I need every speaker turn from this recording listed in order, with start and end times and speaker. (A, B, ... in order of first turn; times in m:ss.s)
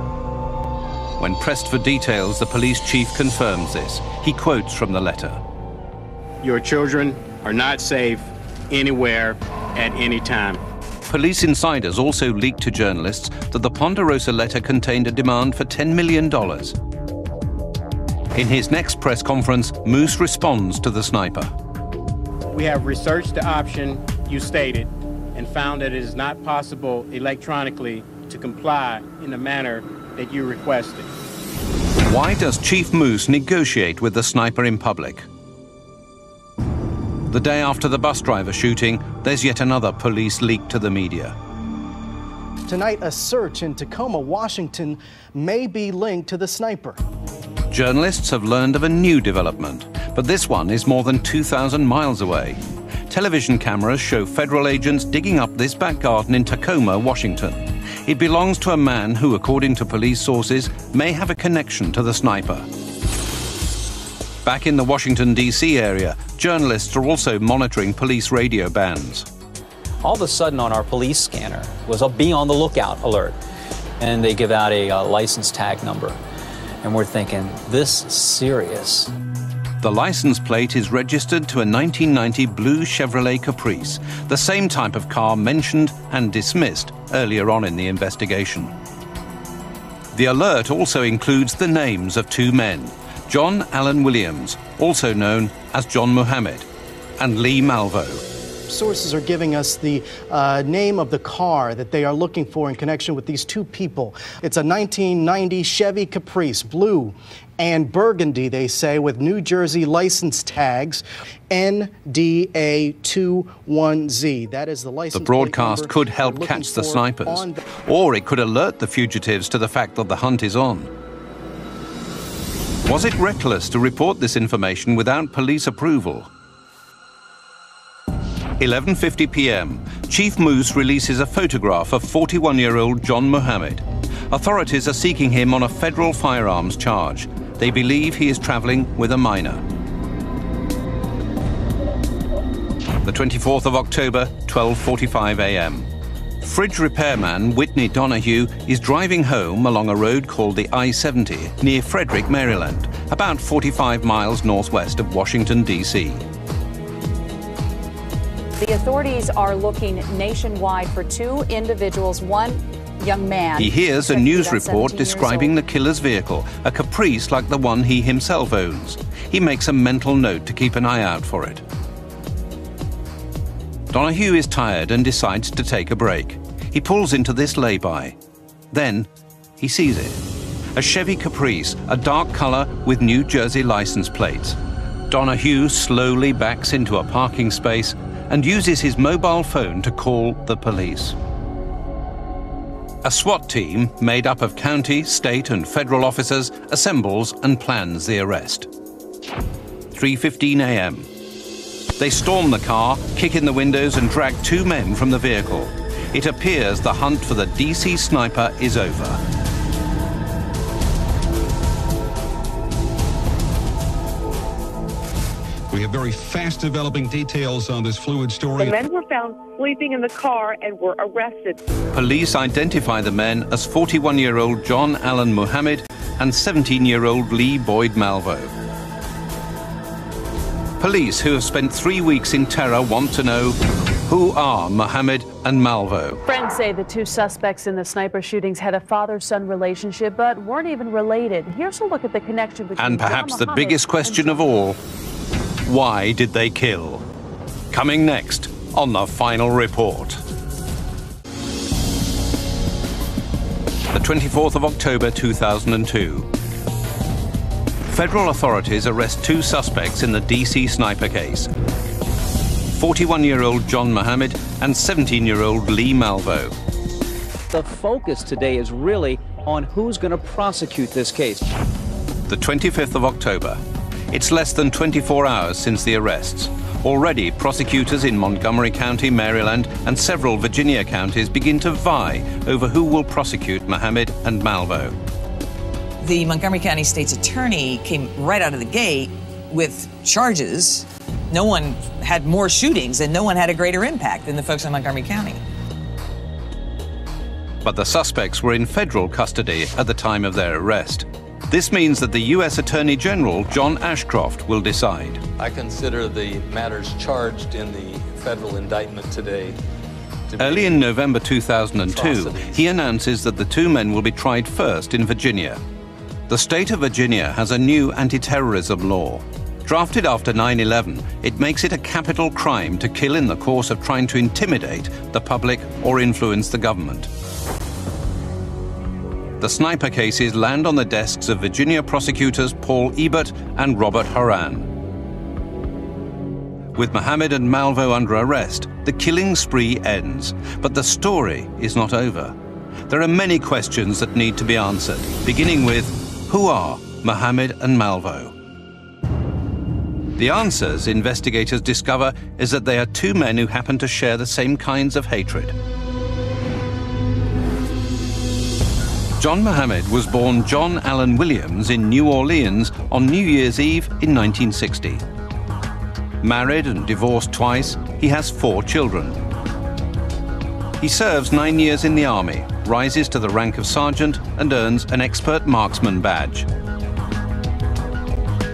0:01.2-0:05.4 A
0:06.4-0:10.6 B
0:11.1-0:16.8 A
0:18.4-0:21.5 A
0:22.5-0:31.1 B
0:32.1-0:35.3 A
0:37.3-0:41.4 A
0:42.7-0:47.0 C
0:47.7-1:02.7 A
1:04.4-1:09.3 A
1:10.0-1:13.4 D
1:14.0-1:16.2 D
1:16.8-1:19.1 D
1:19.8-1:28.7 A
1:30.1-1:36.7 A
1:37.2-1:38.2 A
1:38.7-1:57.6 C
1:55.1-2:00.9 A
2:02.9-2:06.3 A
2:08.6-2:19.6 A
2:23.0-2:25.9 A
2:26.4-2:36.2 A
2:38.6-2:45.5 E
2:43.6-2:51.6 A
2:53.9-2:58.2 A
2:58.7-3:00.2 A
3:00.8-3:04.6 A
3:05.1-3:11.2 A
3:13.0-3:18.7 A
3:19.9-3:21.1 A
3:22.0-3:29.2 A
3:35.7-3:38.8 F
3:38.6-3:41.6 G
3:41.9-3:48.5 A
3:50.8-3:56.2 A
3:56.3-4:04.5 H
4:02.8-4:04.8 A
4:05.6-4:07.0 A
4:07.7-4:10.2 A
4:13.9-4:16.3 A
4:17.9-4:21.5 A
4:22.7-4:26.6 A
4:27.5-4:31.5 D
4:32.3-4:45.0 A
4:46.0-4:55.4 I
4:57.6-5:05.2 A
5:05.4-5:09.6 J
5:10.3-5:10.8 J
5:10.4-5:15.6 A
5:11.9-5:12.6 J
5:16.3-5:27.1 A
5:29.4-5:34.7 A
5:36.8-5:42.4 A
5:42.9-5:48.3 A
5:50.2-5:55.6 A
5:59.2-6:05.0 A
6:06.2-6:09.2 A
6:10.8-6:16.5 A